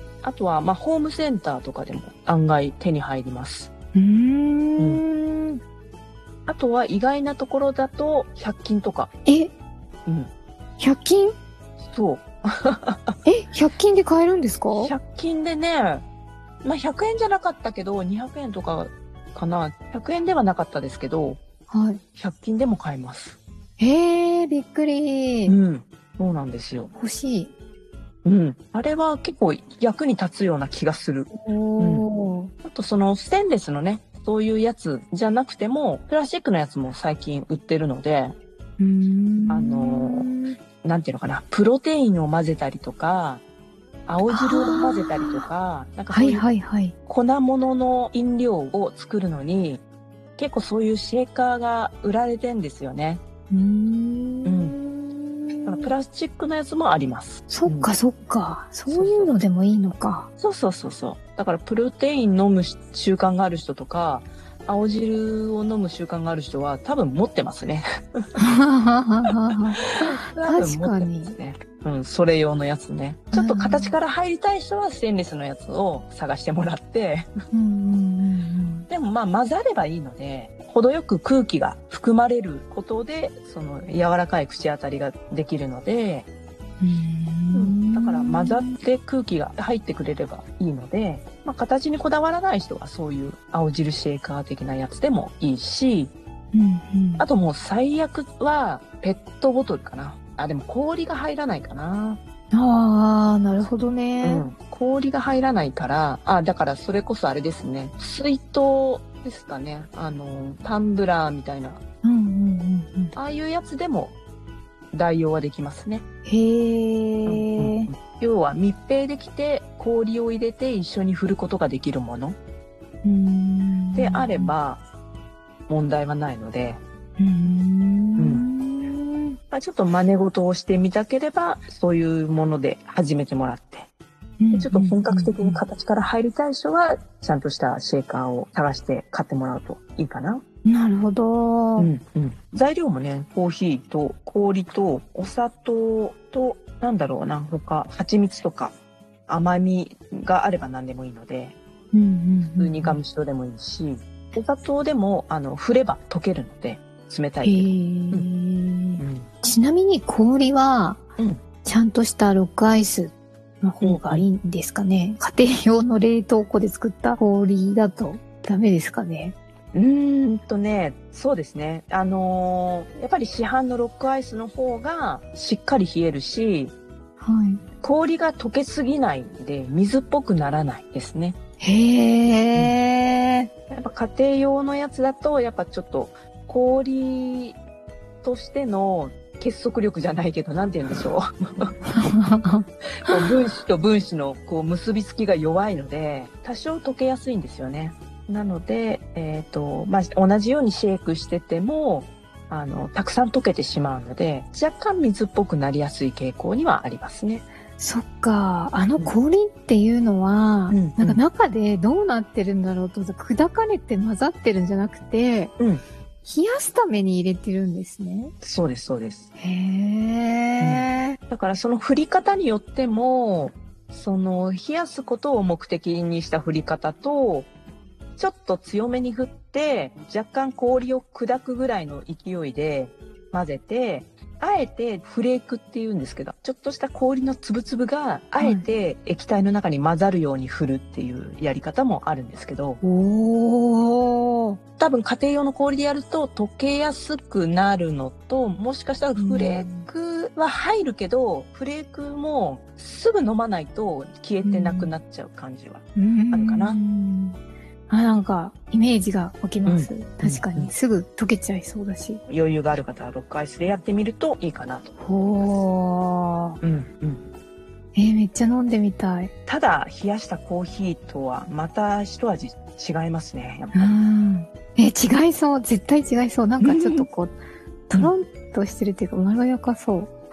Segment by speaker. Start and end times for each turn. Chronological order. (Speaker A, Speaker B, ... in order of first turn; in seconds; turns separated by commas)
Speaker A: 0.2-3.7, Speaker B: 4.0-5.6, Speaker A: 4.8-5.0, Speaker A: 6.5-9.1, Speaker B: 9.2-9.5, Speaker B: 10.8-11.3, Speaker A: 11.8-13.2, Speaker B: 13.2-14.9, Speaker A: 14.7-16.1, Speaker A: 16.6-21.4, Speaker B: 21.7-22.0, Speaker A: 22.2-23.4, Speaker B: 23.8-25.6, Speaker A: 25.5-26.9, Speaker B: 26.9-27.5, Speaker A: 28.2-32.1, Speaker B: 31.3-32.5, Speaker A: 32.6-38.4, Speaker B: 38.8-40.6, Speaker A: 39.5-43.4, Speaker A: 44.1-46.5, Speaker B: 44.3-45.4, Speaker B: 46.1-47.0, Speaker A: 47.1-49.8, Speaker A: 50.4-53.2, Speaker B: 53.5-55.9, Speaker A: 54.5-54.8, Speaker A: 55.6-57.9, Speaker B: 57.5-60.3, Speaker A: 58.9-59.4, Speaker A: 60.4-68.2, Speaker B: 68.4-71.3, Speaker A: 69.2-77.3, Speaker B: 73.3-74.0, Speaker B: 77.5-78.9, Speaker A: 78.9-86.3, Speaker B: 86.8-88.7, Speaker A: 87.5-96.1, Speaker B: 96.5-97.2, Speaker A: 97.2-102.2, Speaker B: 102.5-104.5, Speaker A: 104.2-111.8, Speaker B: 112.0-113.2, Speaker A: 113.2-114.2, Speaker A: 114.9-116.0, Speaker B: 116.2-117.9, Speaker A: 117.2-122.4, Speaker B: 123.0-124.5, Speaker A: 123.9-124.8, Speaker A: 125.7-126.8, Speaker B: 127.2-129.4, Speaker A: 128.2-128.4, Speaker A: 129.5-133.9, Speaker B: 134.4-135.6, Speaker A: 134.5-140.4, Speaker B: 140.7-141.9, Speaker A: 141.8-148.7, Speaker A: 149.3-151.6, Speaker B: 151.9-153.0, Speaker A: 152.6-158.3, Speaker B: 157.4-161.0, Speaker A: 159.0-159.3, Speaker B: 161.6-169.3, Speaker A: 163.8-164.2, Speaker A: 169.7-176.7, Speaker B: 177.2-177.6, Speaker A: 177.8-181.4, Speaker B: 181.6-183.5, Speaker A: 182.5-182.8, Speaker A: 183.7-187.6, Speaker A: 188.2-191.7, Speaker B: 191.9-193.1, Speaker A: 193.1-207.4, Speaker B: 207.8-215.5, Speaker A: 210.7-211.2, Speaker B: 216.2-218.3, Speaker A: 218.4-219.3, Speaker B: 219.4-221.2, Speaker A: 220.6-227.5, Speaker A: 228.2-242.8, Speaker B: 238.4-238.7, Speaker B: 242.8-244.6, Speaker A: 244.8-256.8, Speaker B: 249.2-249.9, Speaker B: 254.4-254.9, Speaker B: 256.0-262.2, Speaker A: 259.6-260.7, Speaker A: 262.3-265.6, Speaker B: 265.0-266.6, Speaker A: 266.6-267.3, Speaker B: 267.9-269.3, Speaker A: 269.5-274.0, Speaker B: 273.7-277.4, Speaker A: 276.6-277.1, Speaker B: 277.9-280.1